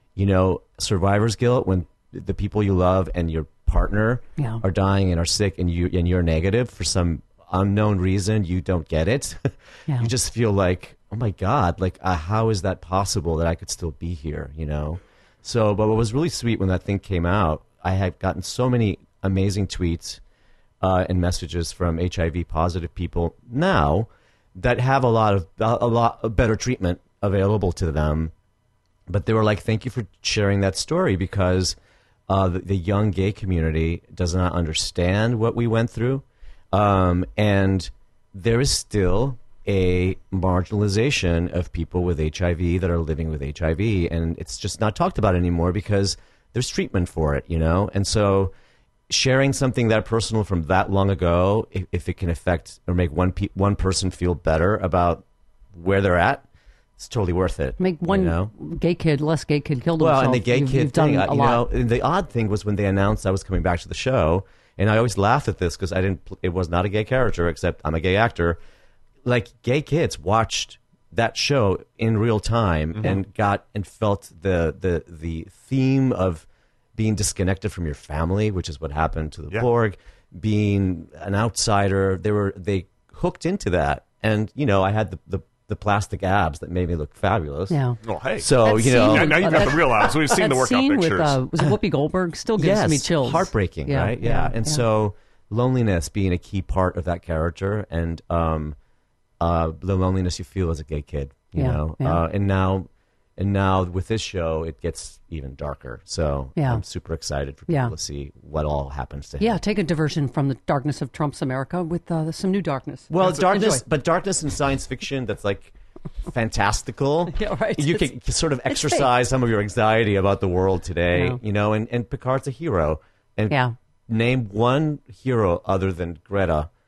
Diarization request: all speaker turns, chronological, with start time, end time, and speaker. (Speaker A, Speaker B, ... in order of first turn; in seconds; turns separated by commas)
Speaker A: 0.2-20.2, Speaker A: 20.8-28.3, Speaker A: 29.1-31.8, Speaker A: 32.3-48.5, Speaker A: 49.1-56.5, Speaker A: 57.0-58.5, Speaker B: 57.8-61.7, Speaker A: 60.0-68.6, Speaker A: 69.2-87.8, Speaker B: 87.7-88.0, Speaker C: 88.0-91.4, Speaker A: 88.4-90.1, Speaker B: 88.6-94.8, Speaker A: 92.6-98.8, Speaker A: 99.4-109.6, Speaker B: 101.5-102.2, Speaker B: 106.6-106.8, Speaker B: 107.7-107.9, Speaker B: 109.4-113.8, Speaker A: 113.1-115.7, Speaker A: 116.3-126.7, Speaker B: 117.3-118.1, Speaker B: 118.7-119.1, Speaker B: 121.1-121.4